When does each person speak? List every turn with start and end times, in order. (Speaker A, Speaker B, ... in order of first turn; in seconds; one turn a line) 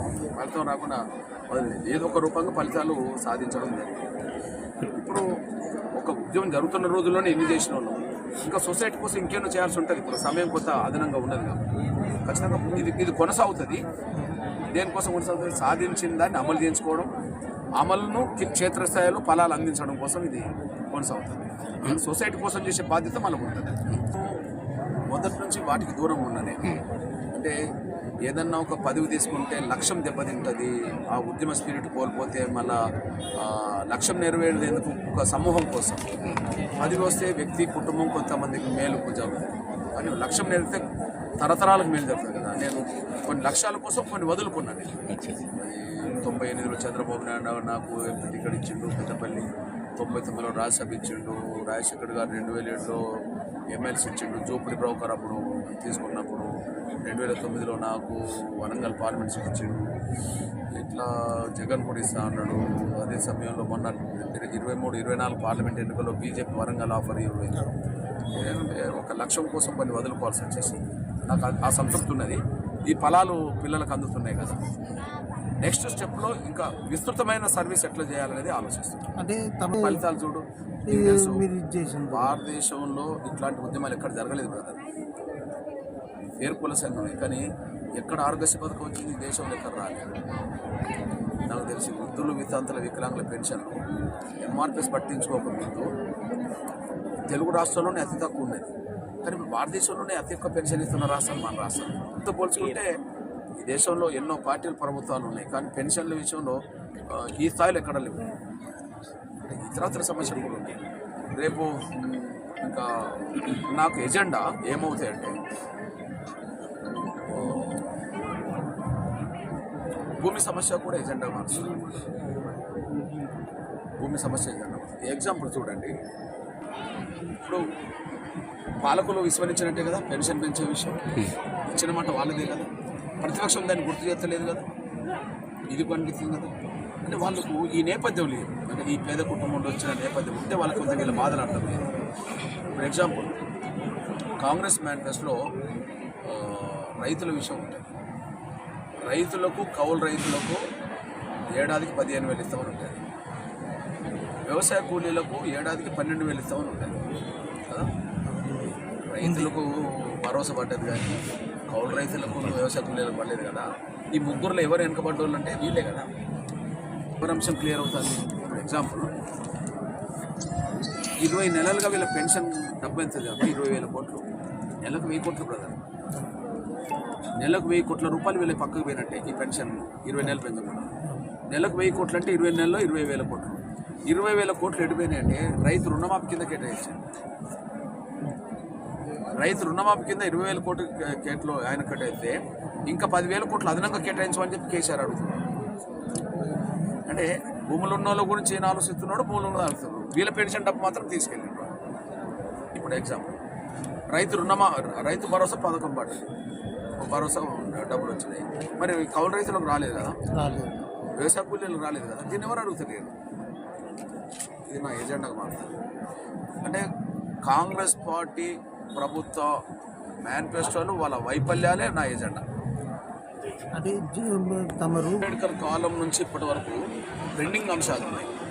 Speaker A: 0.3-4.0
Speaker A: 4.8-5.3
Speaker A: 6.0-11.6
Speaker A: 12.2-13.9
Speaker A: 14.7-17.1
Speaker A: 17.8-24.4
Speaker A: 25.1-27.6
Speaker A: 28.3-32.8
Speaker A: 33.4-36.2
Speaker A: 36.7-40.9
Speaker A: 41.4-53.0
Speaker A: 53.7-56.5
Speaker A: 57.0-59.9
Speaker A: 60.8-67.7
Speaker A: 68.3-74.7
Speaker A: 75.6-79.0
Speaker B: 79.2-80.0
Speaker A: 79.7-81.5
Speaker B: 80.9-82.3
Speaker A: 82.1-84.8
Speaker A: 86.4-87.5
Speaker A: 88.0-90.1
Speaker A: 91.5-93.8
Speaker A: 94.4-95.9
Speaker A: 97.3-98.7
Speaker A: 99.2-103.0
Speaker A: 103.6-108.3
Speaker A: 109.5-110.8
Speaker A: 111.3-115.4
Speaker A: 117.0-117.9
Speaker A: 120.2-121.8
Speaker A: 124.0-126.0
Speaker A: 127.3-127.6
Speaker A: 128.8-132.7
Speaker A: 133.2-134.7
Speaker A: 135.7-141.8
Speaker A: 142.7-143.4
Speaker A: 144.4-145.4
Speaker A: 146.2-147.8
Speaker A: 149.1-150.6
Speaker A: 151.6-153.0
Speaker A: 154.5-157.1
Speaker B: 158.3-159.5
Speaker A: 159.1-166.1
Speaker A: 167.2-169.1
Speaker A: 171.2-174.3
Speaker A: 174.8-175.8
Speaker A: 177.4-180.9
Speaker A: 181.5-187.0
Speaker A: 189.4-195.4
Speaker A: 197.1-201.7
Speaker A: 202.7-203.4
Speaker A: 204.1-206.3
Speaker A: 207.0-210.2
Speaker B: 210.3-210.7
Speaker A: 211.2-213.1
Speaker A: 214.7-215.7
Speaker A: 217.4-219.6
Speaker A: 220.2-222.4
Speaker B: 223.7-225.3
Speaker A: 225.2-226.8
Speaker A: 227.3-228.3